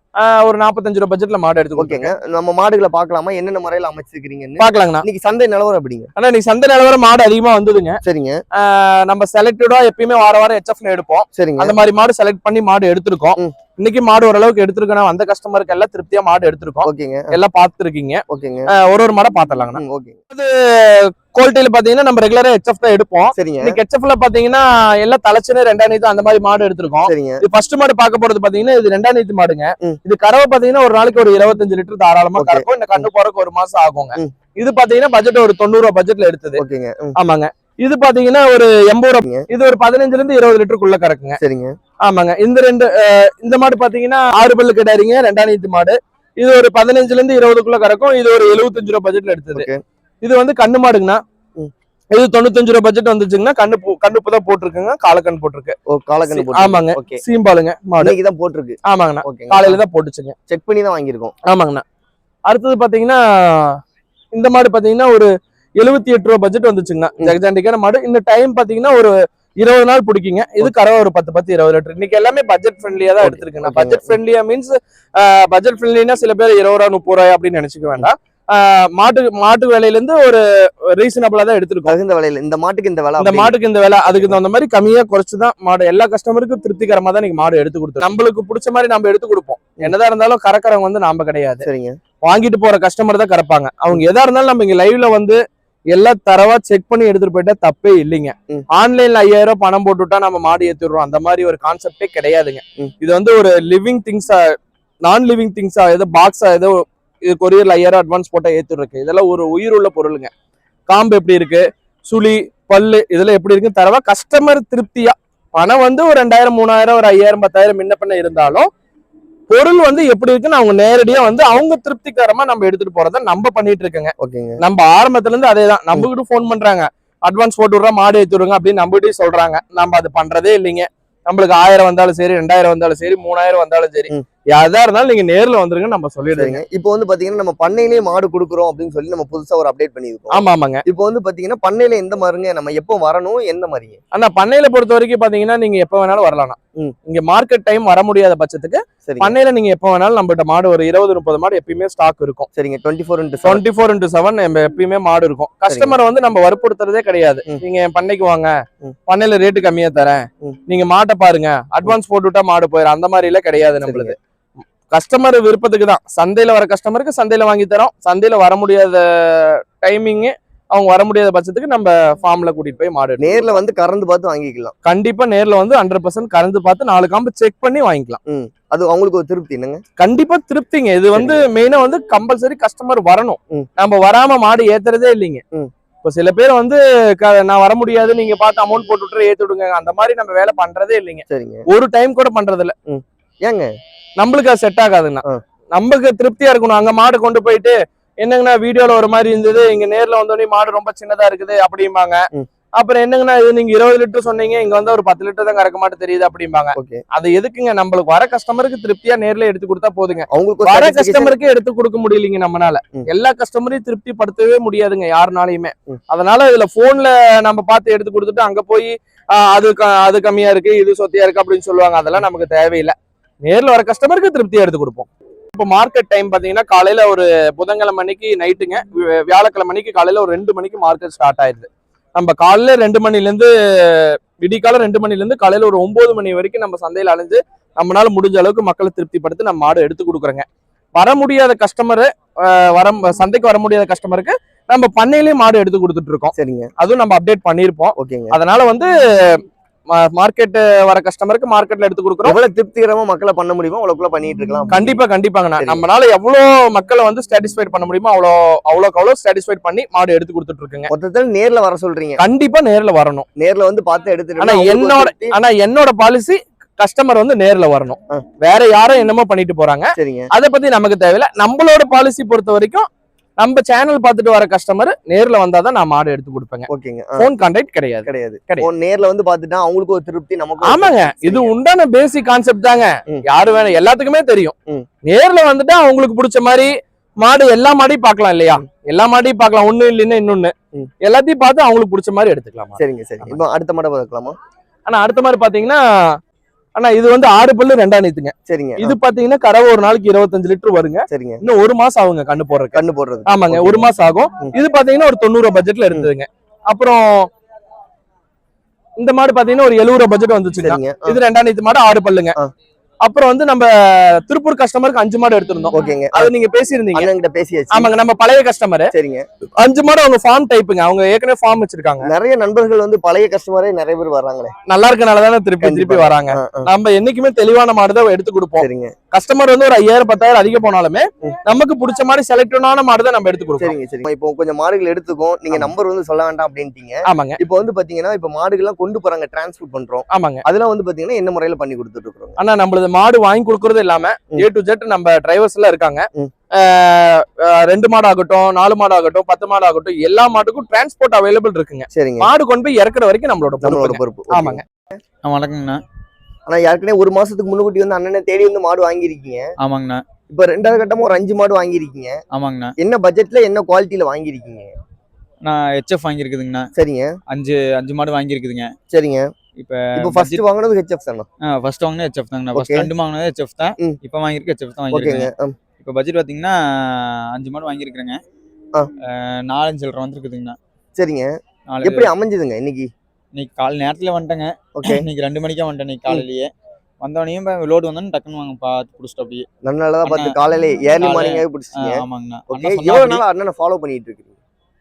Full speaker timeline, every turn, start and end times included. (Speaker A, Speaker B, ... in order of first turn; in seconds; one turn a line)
Speaker A: 0.2-2.1
Speaker B: 1.8-6.1
Speaker A: 4.6-5.0
Speaker A: 6.2-8.0
Speaker B: 8.0-8.4
Speaker A: 8.6-36.6
Speaker B: 11.3-11.8
Speaker B: 16.8-17.4
Speaker B: 18.3-18.7
Speaker B: 19.7-20.2
Speaker B: 23.3-23.8
Speaker B: 27.1-27.4
Speaker B: 32.4-33.1
Speaker B: 36.6-37.1
Speaker A: 37.1-41.4
Speaker B: 39.2-39.5
Speaker B: 41.4-41.7
Speaker A: 42.0-49.7
Speaker B: 49.5-49.8
Speaker A: 50.2-51.2
Speaker A: 52.1-55.7
Speaker B: 55.9-57.2
Speaker A: 56.3-58.1
Speaker B: 58.0-59.8
Speaker A: 58.9-60.3
Speaker B: 60.5-61.3
Speaker A: 61.5-61.8
Speaker A: 62.5-63.8
Speaker A: 64.3-81.9
Speaker B: 73.2-74.2
Speaker B: 81.9-84.4
Speaker A: 83.2-91.6
Speaker B: 91.6-92.0
Speaker A: 92.2-95.4
Speaker A: 95.9-104.5
Speaker A: 105.0-110.3
Speaker A: 110.9-118.7
Speaker A: 119.5-136.6
Speaker B: 124.2-124.6
Speaker B: 136.3-144.0
Speaker A: 140.3-140.8
Speaker A: 144.1-152.5
Speaker B: 149.1-149.3
Speaker B: 152.5-153.6
Speaker A: 153.4-158.5
Speaker B: 155.7-156.0
Speaker A: 159.1-164.2
Speaker B: 163.8-164.1
Speaker A: 164.9-173.5
Speaker B: 173.2-174.7
Speaker A: 174.8-178.2
Speaker B: 178.3-179.8
Speaker A: 180.0-185.4
Speaker B: 181.1-181.4
Speaker A: 186.0-192.7
Speaker B: 191.3-191.6
Speaker B: 192.9-193.7
Speaker A: 194.2-202.2
Speaker A: 202.8-249.4
Speaker B: 206.8-207.0
Speaker B: 210.3-211.3
Speaker B: 246.3-246.7
Speaker B: 248.0-248.4
Speaker A: 249.9-252.4
Speaker B: 252.2-255.0
Speaker A: 254.7-260.9
Speaker B: 255.6-255.8
Speaker B: 260.9-262.2
Speaker A: 262.2-263.2
Speaker B: 263.4-265.4
Speaker A: 264.4-272.9
Speaker B: 270.0-270.3
Speaker A: 273.4-278.7
Speaker B: 276.7-277.3
Speaker B: 278.0-281.5
Speaker A: 280.6-293.4
Speaker B: 292.8-294.3
Speaker A: 294.9-295.8
Speaker A: 296.8-307.3
Speaker B: 298.5-298.9
Speaker B: 301.1-301.4
Speaker B: 302.7-303.9
Speaker A: 309.0-312.3
Speaker B: 310.6-311.2
Speaker A: 313.0-317.1
Speaker B: 315.7-316.3
Speaker B: 316.9-317.9
Speaker A: 317.7-318.9
Speaker B: 318.9-319.2
Speaker A: 319.6-322.1
Speaker B: 322.0-324.5
Speaker A: 324.7-333.8
Speaker B: 325.6-326.7
Speaker B: 328.6-328.9
Speaker B: 333.6-342.4
Speaker A: 337.1-337.4
Speaker A: 340.1-340.4
Speaker A: 342.4-346.0
Speaker A: 346.5-354.6
Speaker B: 351.9-352.3
Speaker B: 353.6-354.6
Speaker C: 355.2-355.8
Speaker B: 356.5-359.5
Speaker C: 359.6-360.0
Speaker B: 360.3-362.2
Speaker C: 362.3-362.7
Speaker B: 362.8-364.7
Speaker C: 365.4-366.7
Speaker B: 366.8-367.1
Speaker C: 367.3-368.7
Speaker B: 368.9-369.3
Speaker C: 369.6-370.4
Speaker B: 369.9-371.2
Speaker C: 371.5-378.2
Speaker B: 372.5-372.9
Speaker B: 374.9-375.6
Speaker C: 379.1-380.6
Speaker B: 381.0-381.3
Speaker C: 381.7-382.1
Speaker B: 381.8-382.9
Speaker C: 383.3-386.5
Speaker B: 384.8-385.1
Speaker C: 387.0-389.4
Speaker B: 389.6-394.4
Speaker C: 390.0-390.3
Speaker C: 391.0-393.2